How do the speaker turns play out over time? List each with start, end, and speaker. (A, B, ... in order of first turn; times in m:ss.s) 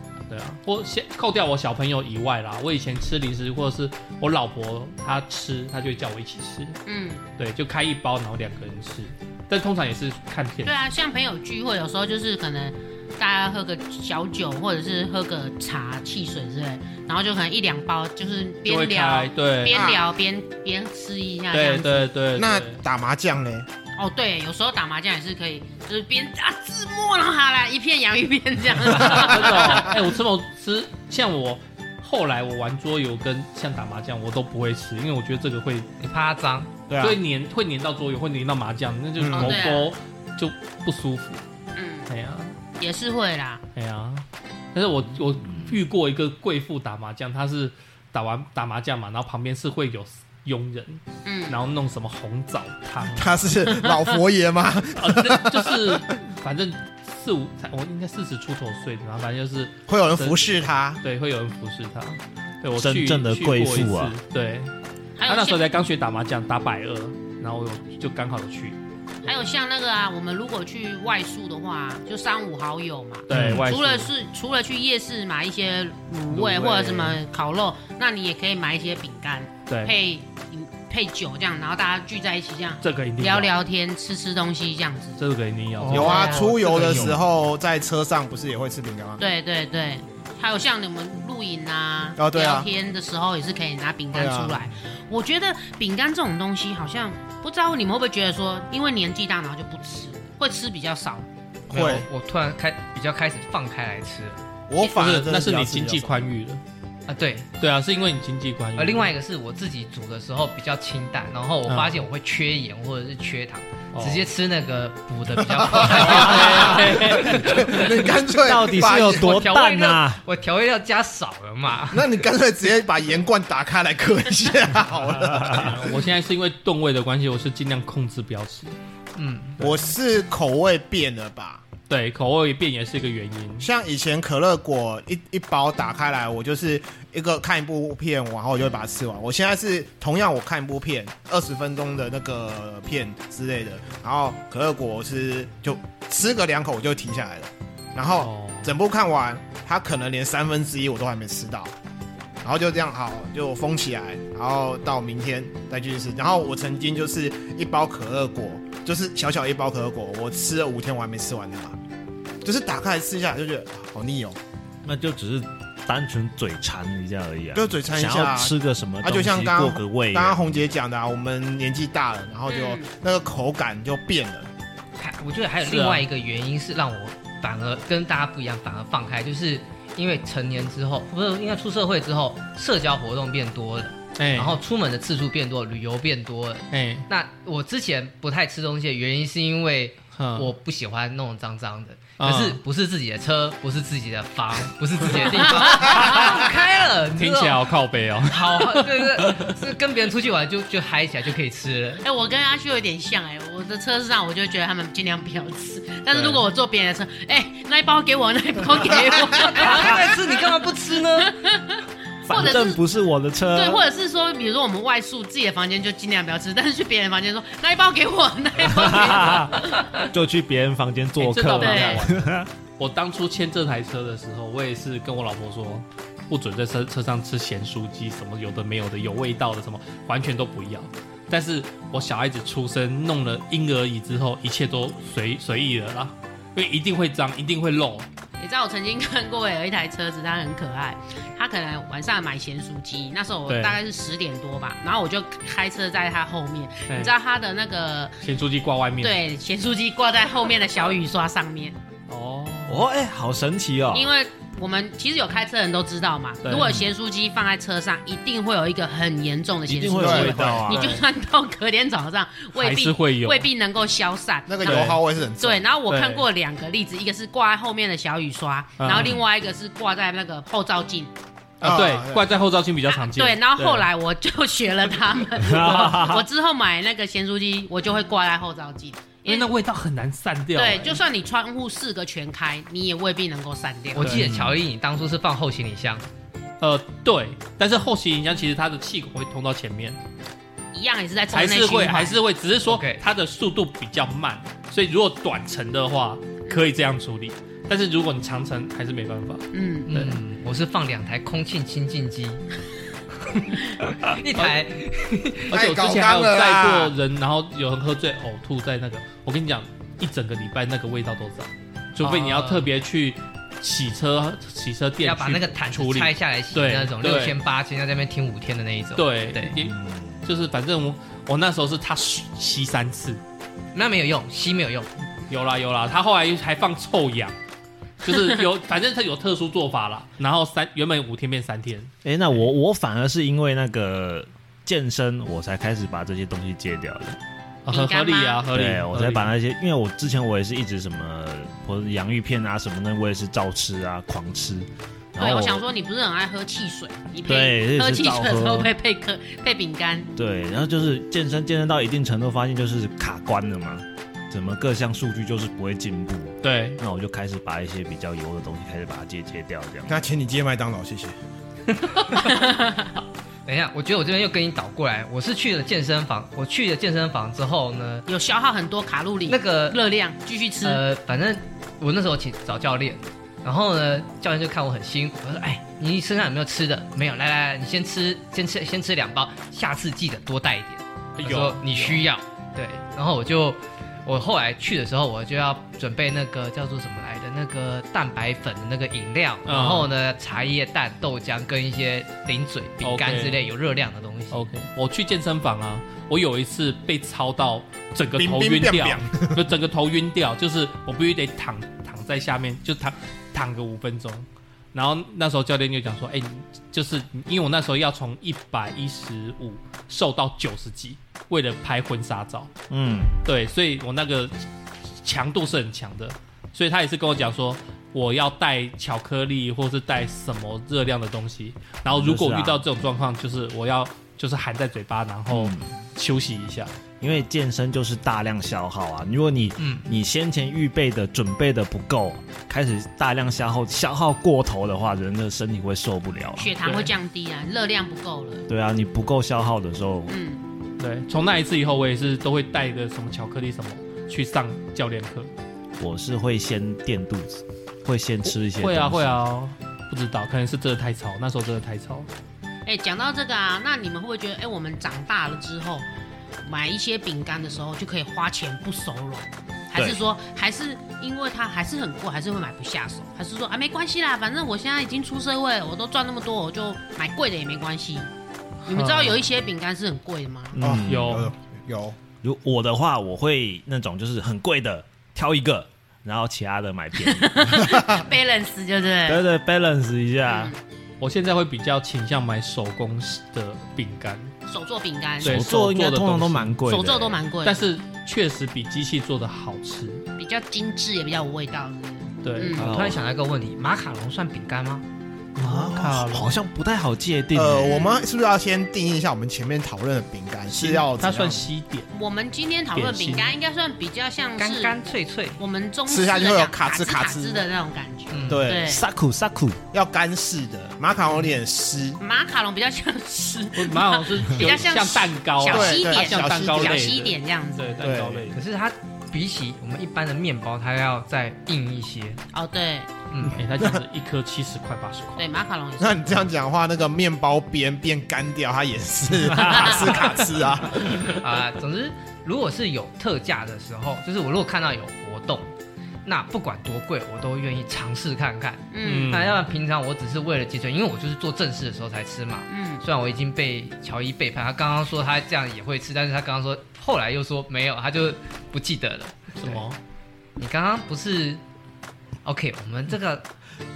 0:00.3-0:06.8 A
0:06.8-0:07.2 B
0:07.4-0:10.8 A
0:10.6-0:22.1 B
0:18.6-0:19.9 A
0:19.7-0:20.0 C
0:21.5-0:22.8 A
0:22.3-0:23.7 C
0:24.0-0:30.0 B
0:28.8-0:35.9 A
0:36.0-0:36.7 D
0:36.9-0:37.2 C
0:37.0-0:41.4 A
0:39.2-0:39.6 C
0:39.3-0:39.9 B
0:41.8-0:42.1 B
0:42.1-0:42.5 A
0:42.8-0:43.6 B
0:43.7-0:53.5 A
0:45.4-0:45.7 E
0:51.2-0:51.6 B
0:53.1-0:56.0 C
0:55.0-1:00.4 A
0:59.9-1:01.0 C
1:01.0-1:04.7 A
1:02.8-1:04.2 E
1:05.2-1:05.6 B
1:05.3-1:09.4 A
1:09.2-1:25.2 B
1:13.3-1:14.1 A
1:13.3-1:13.7 E
1:16.3-1:17.2 A
1:19.7-1:19.9 A
1:22.8-1:23.5 A
1:25.2-1:27.2 A
1:25.8-1:27.1 B
1:25.8-1:29.2 C
1:29.2-1:41.3 B
1:32.2-1:32.7 C
1:34.1-1:34.7 C
1:41.7-1:42.1 C
1:41.7-1:44.4 D
1:44.7-1:46.2 C
1:44.8-1:46.6 A
1:47.1-1:47.5 D
1:47.6-1:49.1 A
1:48.8-1:57.8 D
1:51.7-1:52.0 A
1:53.9-1:54.2 A
1:55.5-1:59.4 C
1:55.8-1:57.9 A
1:58.3-2:00.2 E
1:58.9-2:02.1 D
2:01.9-2:06.0 C
2:05.4-2:08.7 A
2:09.2-2:09.6 D
2:09.6-2:11.6 C
2:11.9-2:13.7 A
2:13.6-2:31.7 C
2:28.2-2:28.7 A
2:32.4-2:41.8 C
2:42.4-2:44.4 C
2:44.8-2:50.6 E
2:47.5-2:54.5 C
2:52.5-2:52.8 B
2:55.0-3:17.6 D
2:55.6-2:56.0 A
3:04.2-3:04.6 A
3:06.7-3:07.1 A
3:10.2-3:10.5 A
3:12.2-3:12.6 A
3:15.5-3:16.3 B
3:15.6-3:19.6 A
3:18.3-3:22.0 D
3:22.0-3:30.4 B
3:26.1-3:26.4 A
3:29.2-3:31.4 D
3:31.2-3:32.8 B
3:32.2-3:33.8 E
3:33.5-3:40.0 B
3:38.6-3:42.5 E
3:41.2-3:58.1 A
3:41.6-3:42.0 B
3:58.4-4:08.2 B
4:03.5-4:03.8 A
4:08.2-4:09.2 A
4:09.0-4:11.8 B
4:12.1-4:12.8 A
4:12.7-4:14.1 E
4:13.9-4:31.1 B
4:16.4-4:16.8 A
4:16.5-4:16.8 E
4:19.7-4:21.0 E
4:20.0-4:20.4 C
4:20.5-4:21.0 A
4:22.5-4:23.5 A
4:24.5-4:25.6 C
4:24.6-4:25.0 A
4:25.9-4:26.3 A
4:28.8-4:29.2 A
4:31.6-4:33.9 A
4:31.6-4:32.3 C
4:32.9-4:39.5 B
4:35.4-4:36.2 E
4:39.2-4:41.0 A
4:40.6-4:44.1 B
4:43.9-4:46.1 D
4:44.0-4:44.2 A
4:44.1-4:44.6 E
4:46.6-4:50.0 A
4:50.7-4:52.2 B
4:51.3-5:00.2 A
4:52.7-4:53.0 D
4:59.5-4:59.9 B
4:59.9-5:02.4 D
5:03.8-5:05.6 D
5:05.5-5:17.4 A
5:05.5-5:06.9 C
5:12.0-5:12.7 D
5:15.0-5:19.6 D
5:19.0-5:23.2 A
5:23.7-5:24.9 D
5:25.3-5:27.4 A
5:28.0-5:31.9 A
5:32.0-5:37.2 E
5:37.6-5:39.3 A
5:37.7-5:38.5 B
5:38.5-5:45.6 E
5:45.2-5:50.1 B
5:47.2-5:48.7 E
5:50.2-5:59.9 E
5:56.4-5:56.8 A
5:59.9-6:01.1 C
6:02.1-6:02.9 B
6:03.4-6:08.1 D
6:08.1-6:10.8 B
6:09.2-6:09.8 D
6:10.6-6:34.5 D
6:21.2-6:22.0 A
6:29.4-6:29.9 A
6:32.8-6:33.4 A
6:34.3-6:52.5 A
6:38.1-6:39.5 C
6:52.7-6:53.2 E
6:53.2-6:54.3 A
6:55.0-7:06.7 A
7:01.9-7:02.6 E
7:05.3-7:05.7 E
7:07.0-7:16.5 E
7:09.6-7:09.8 D
7:16.4-7:18.4 B
7:16.6-7:16.9 A
7:18.5-7:20.1 E
7:20.1-7:20.4 B
7:20.8-7:25.3 A
7:25.8-7:29.2 E
7:28.2-7:32.1 A
7:32.6-7:35.8 B
7:36.4-7:48.1 B
7:39.7-7:40.0 E
7:48.7-7:50.6 B
7:48.7-7:49.3 A
7:50.6-7:51.3 E
7:50.6-7:52.0 C
7:50.8-7:51.3 A
7:52.2-7:57.7 E
7:57.0-7:59.2 B
7:59.1-8:00.5 E
8:00.2-8:00.6 B
8:01.0-8:04.3 A
8:04.5-8:05.4 B
8:05.2-8:07.2 E
8:05.2-8:06.5 A
8:06.6-8:07.6 B
8:07.4-8:10.0 A
8:10.2-8:12.7 B
8:12.2-8:12.6 A
8:12.6-8:13.0 E
8:12.6-8:14.8 D
8:15.4-8:17.7 E
8:15.4-8:16.3 A
8:17.3-8:21.4 C
8:17.6-8:18.0 B
8:20.5-8:21.9 A
8:21.9-8:28.8 B
8:22.7-8:23.3 A
8:24.4-8:25.4 D
8:25.9-8:27.4 C
8:28.1-8:28.4 D
8:28.3-8:28.8 C
8:28.6-8:29.6 E
8:29.7-8:32.0 C
8:32.0-8:37.9 B
8:33.5-8:38.4 A
8:35.4-8:36.9 C
8:37.8-8:38.3 C
8:38.3-8:42.2 D
8:42.3-8:42.9 B
8:43.1-8:43.4 D
8:43.3-8:45.3 A
8:45.2-8:46.2 B
8:45.8-8:51.1 C
8:49.4-8:50.0 B
8:51.1-8:55.5 D
8:56.0-9:09.6 D
8:58.7-8:59.1 B
8:58.8-8:59.4 A
9:02.5-9:02.8 B
9:09.4-9:09.8 A
9:10.4-9:11.4 D
9:12.2-9:13.3 D